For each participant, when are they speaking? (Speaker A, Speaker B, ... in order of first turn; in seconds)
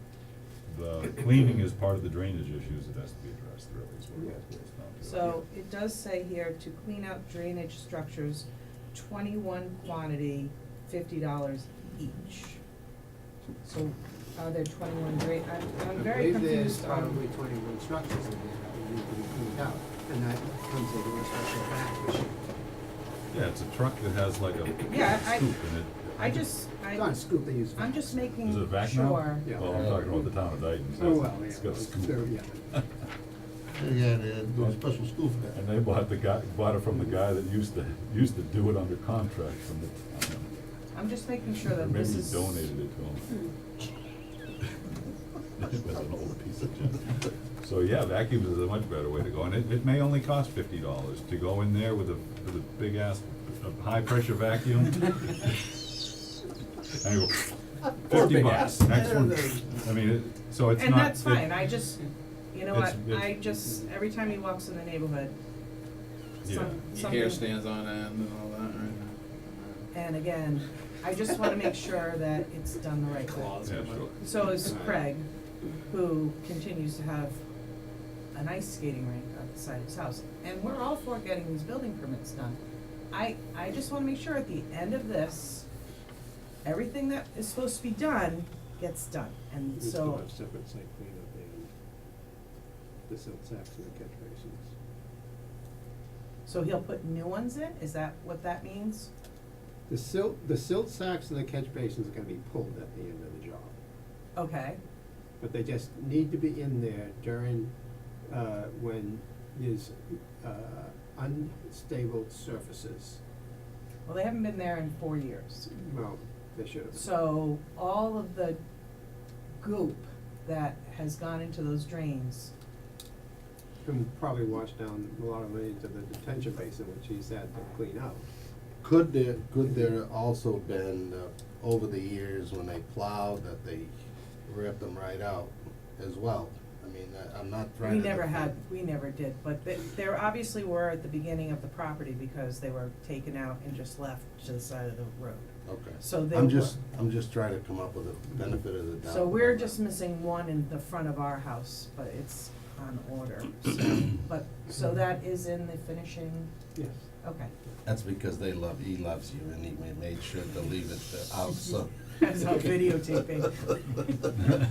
Speaker A: 0.7-5.4, 23.3-26.5, 28.4-32.9, 34.5-34.8, 35.5-40.5, 41.6-43.4, 45.5-55.6, 56.9-61.5, 62.7-63.6, 66.4-66.8, 73.6-74.2
Speaker B: 5.0-12.6, 13.6-17.2, 24.9-25.6, 26.1-29.6, 40.9-42.7, 60.7-65.3, 66.4-67.5, 69.9-75.3, 75.9-77.4, 78.3-82.6, 83.1-85.7, 86.6-90.2, 96.5-99.1, 104.3-104.8, 114.1-115.7, 116.9-118.6, 119.6-122.5, 137.8-146.8, 149.0-156.5, 157.2-157.5, 162.1-164.2
Speaker C: 15.9-22.4, 26.9-28.3, 29.4-29.8, 30.9-32.6, 89.8-91.7, 93.1-94.7, 99.9-103.7, 105.4-107.7, 108.3-113.2, 115.7-117.0, 123.8-128.2, 156.7-157.0
Speaker D: 29.6-30.2, 33.8-35.5, 128.8-133.9, 134.4-138.5, 145.7-149.7, 157.8-162.7
Speaker E: 58.1-59.9, 66.9-69.9, 73.2-75.1